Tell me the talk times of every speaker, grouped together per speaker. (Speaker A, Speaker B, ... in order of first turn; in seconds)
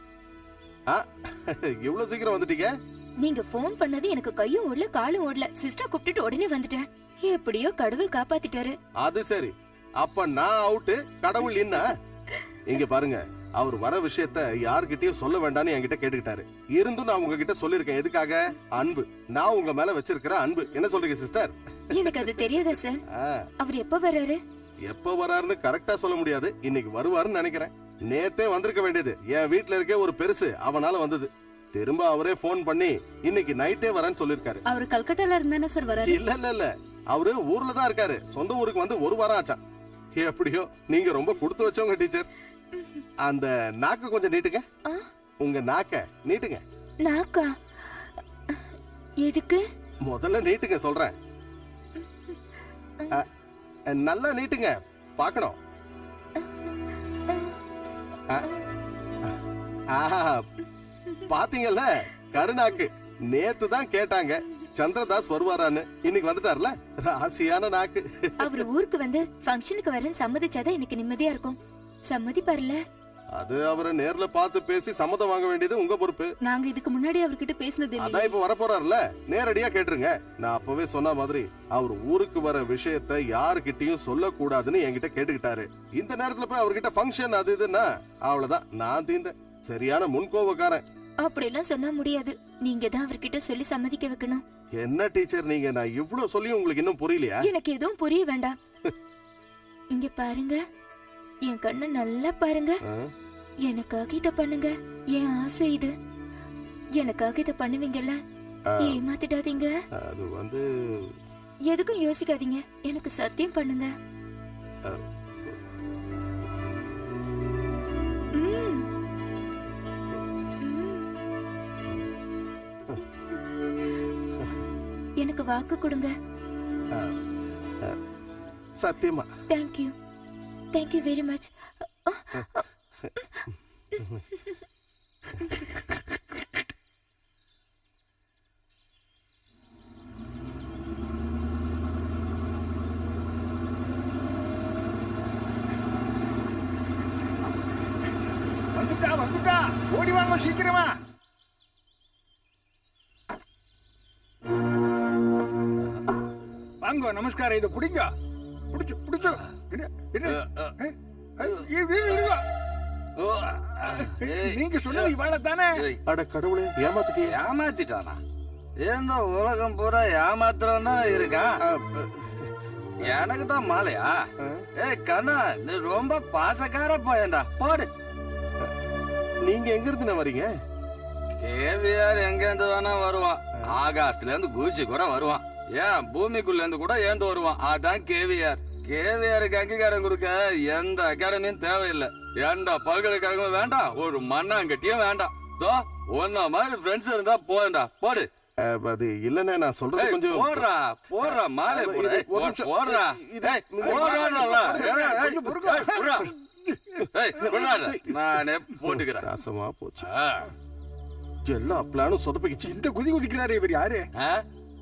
Speaker A: 0.9-2.7, 9.0-11.9, 12.7-21.5, 23.1-23.4, 24.9-34.6, 36.0-39.6, 40.2-42.3, 43.2-44.6, 45.4-46.6, 50.1-51.1, 53.9-55.6, 59.9-60.4, 61.3-68.5, 73.4-76.3, 78.0-90.8, 94.8-97.4, 108.7-109.0, 110.0-110.6, 128.8-129.3, 166.1-167.3, 171.6-172.5, 174.4-174.6, 179.4-180.5, 198.6-200.6, 201.2-205.3, 207.4-208.2, 209.2-210.1, 211.4-212.7
Speaker B: 3.2-8.7, 21.9-23.0, 23.6-24.4, 42.7-43.0, 47.0-48.6, 49.2-49.6, 57.3-57.5, 68.4-71.6, 72.1-72.8, 91.2-94.4, 97.4-98.5, 99.9-100.6, 101.5-102.8, 103.7-105.9, 107.0-108.2, 108.8-109.7, 111.7-113.9, 118.3-118.9, 120.6-121.1, 125.2-126.1, 129.5-129.9, 130.7-131.5, 132.0-132.6
Speaker C: 34.7-36.2, 76.5-78.3
Speaker D: 148.7-150.9, 156.8-158.1, 158.7-162.4, 163.8-165.8, 203.8-207.1, 212.6-214.1
Speaker E: 160.2-160.8, 161.4-161.7, 163.2-165.1, 167.2-168.2, 168.8-171.5, 173.0-174.2, 174.8-177.9, 181.4-198.3, 200.0-206.3, 207.1-209.3, 210.0-210.5